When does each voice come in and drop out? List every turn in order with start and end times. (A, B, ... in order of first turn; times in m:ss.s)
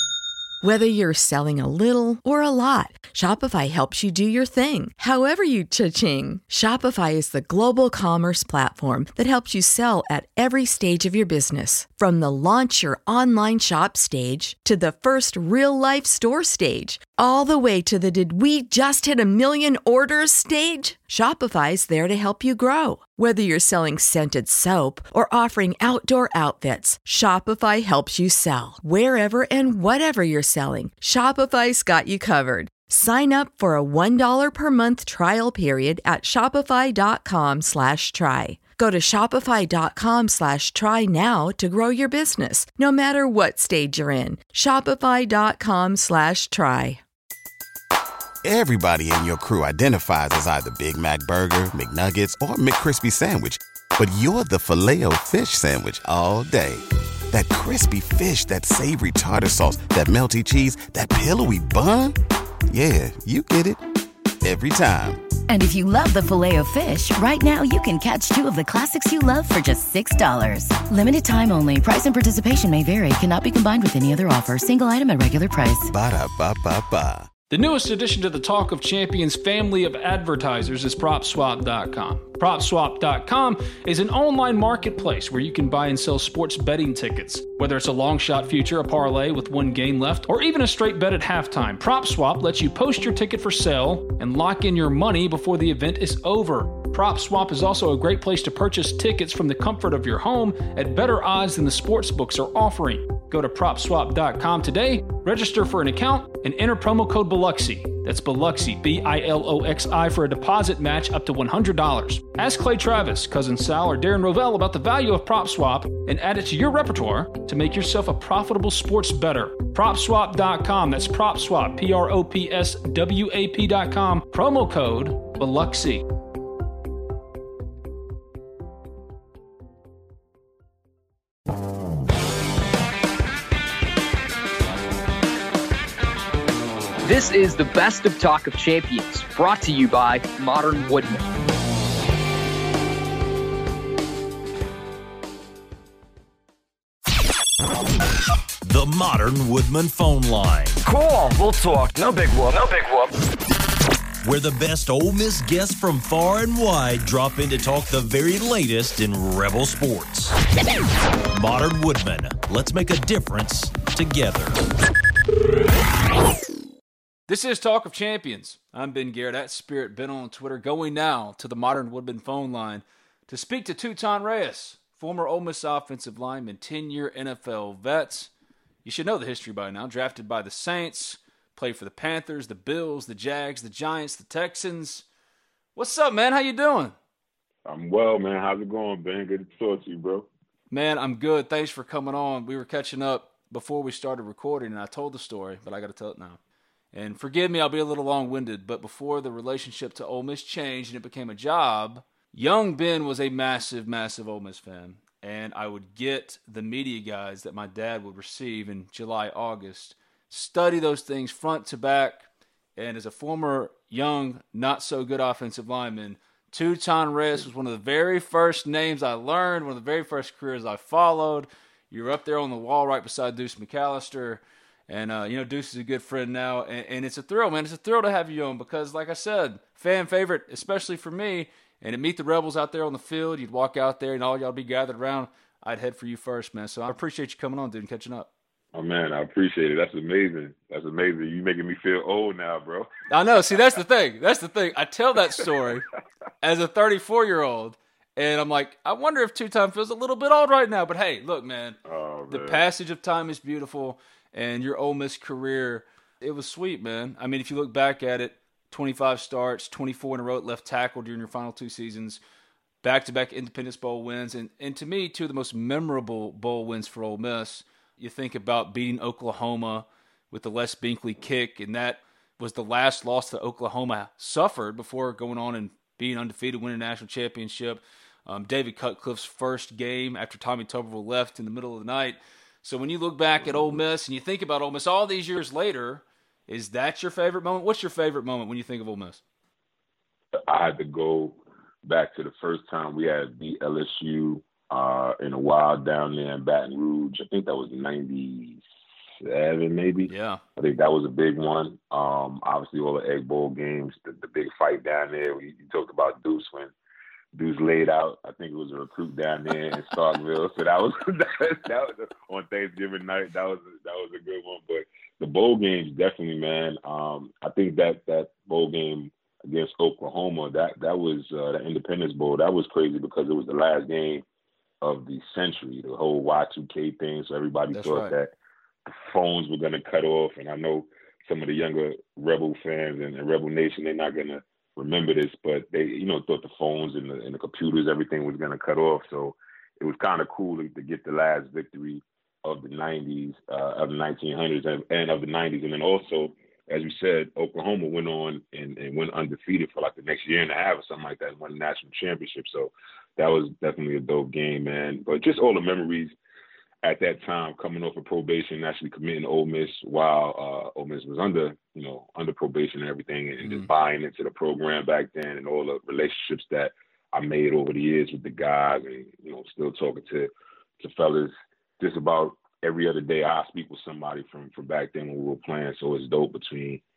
0:00.6-0:47.0 A
0:48.4-1:02.1 B
1:02.7-1:03.8 B
1:04.4-1:05.2 B
1:05.5-1:15.9 C
1:15.9-1:17.3 B
1:17.5-2:06.0 D
2:17.0-2:21.2 E
2:28.6-2:30.8 F
2:30.9-2:33.1 G
2:34.2-2:40.3 F
2:41.3-2:44.6 F
2:47.3-2:58.3 D
2:58.8-3:05.0 D
3:05.8-3:06.9 D
3:07.6-3:10.3 H
3:10.7-3:16.4 D
3:16.9-3:58.3 D
3:58.7-4:02.9 H
4:03.1-4:05.9 D
4:06.4-4:11.8 D
4:11.8-4:12.6 H
4:12.3-4:22.2 D
4:22.8-4:49.2 D
4:50.5-4:58.6 H
4:59.2-5:06.7 H
5:00.1-5:00.4 D
5:07.3-5:24.2 H
5:24.8-5:28.3 H
5:27.7-5:28.1 D
5:28.8-5:56.1 H
5:56.8-6:16.8 H
6:03.4-6:03.7 D